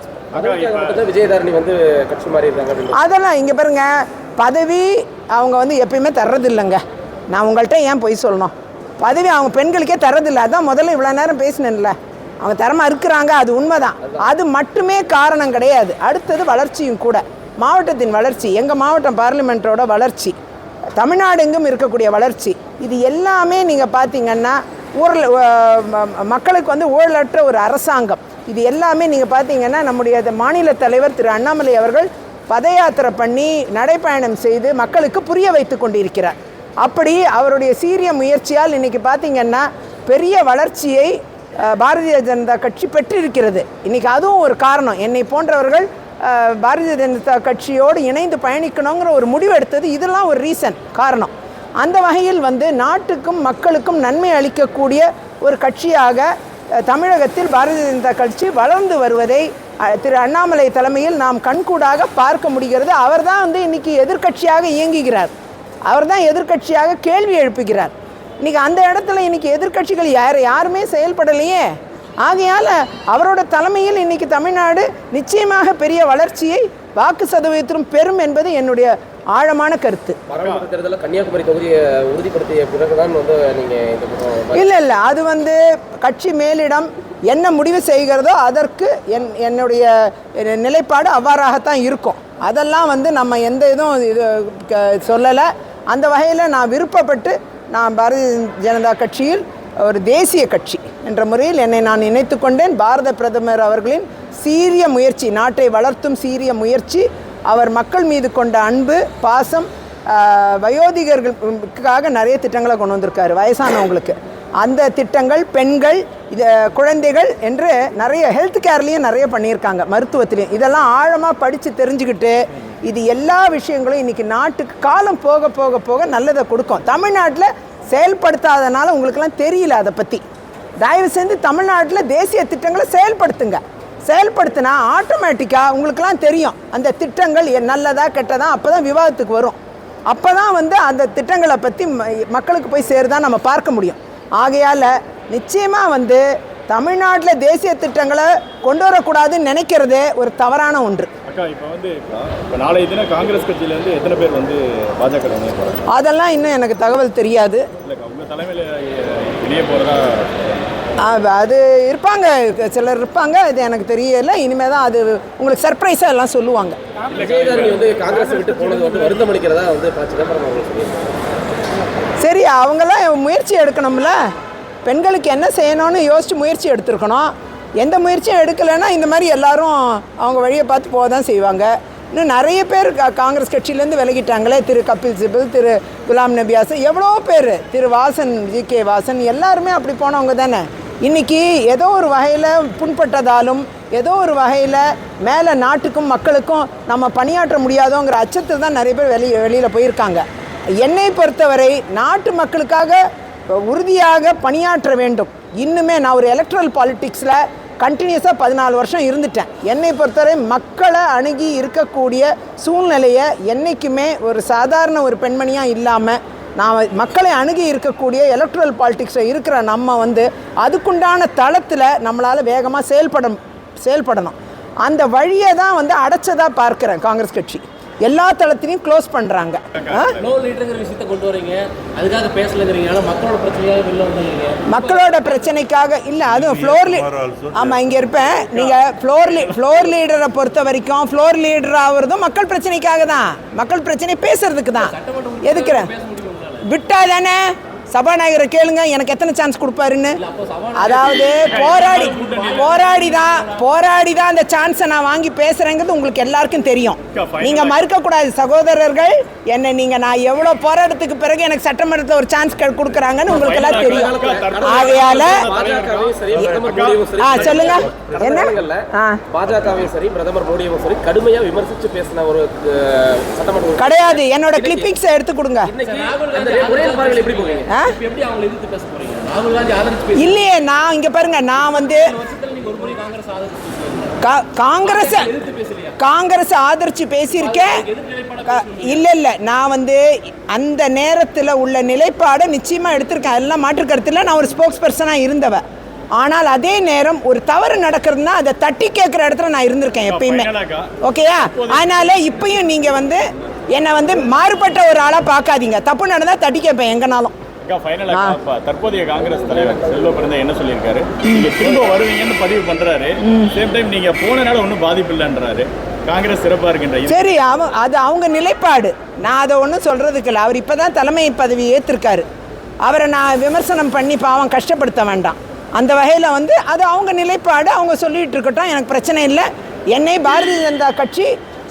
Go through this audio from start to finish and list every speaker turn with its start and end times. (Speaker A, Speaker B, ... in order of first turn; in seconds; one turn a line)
Speaker A: 0.3-1.0
Speaker B: 0.3-3.0
Speaker C: 2.9-20.3
Speaker C: 20.9-65.3
Speaker C: 65.9-71.7
Speaker C: 72.2-80.2
Speaker B: 80.3-84.6
Speaker C: 84.5-130.2
Speaker C: 130.8-139.6
Speaker C: 140.1-151.1
Speaker A: 151.3-155.8
Speaker C: 155.9-157.7
Speaker A: 157.8-160.4
Speaker C: 161.0-166.8
Speaker A: 167.1-167.9
Speaker B: 167.1-171.0
Speaker C: 172.2-174.2
Speaker C: 174.8-200.2
Speaker C: 200.8-230.1
Speaker A: 229.8-230.3
Speaker D: 230.2-235.3
Speaker C: 234.7-245.9
Speaker D: 244.8-246.6
Speaker C: 246.6-250.2
Speaker D: 250.2-253.6
Speaker C: 250.8-265.4
Speaker A: 251.2-252.9
Speaker A: 257.1-257.8
Speaker A: 263.3-267.7
Speaker B: 263.8-274.9
Speaker C: 267.2-269.2
Speaker C: 273.8-275.7
Speaker B: 275.7-277.7
Speaker D: 275.9-280.4
Speaker C: 277.7-277.9
Speaker C: 280.2-282.1
Speaker D: 281.8-284.1
Speaker C: 284.2-285.3
Speaker D: 284.8-285.9
Speaker C: 286.0-287.8
Speaker D: 287.3-289.0
Speaker C: 288.5-295.6
Speaker C: 296.1-300.5
Speaker A: 300.1-300.9
Speaker C: 301.0-307.3
Speaker A: 301.4-302.3
Speaker A: 307.6-317.3
Speaker C: 308.1-308.4
Speaker B: 309.2-310.1
Speaker C: 313.2-313.5
Speaker C: 317.1-322.2
Speaker C: 322.8-331.3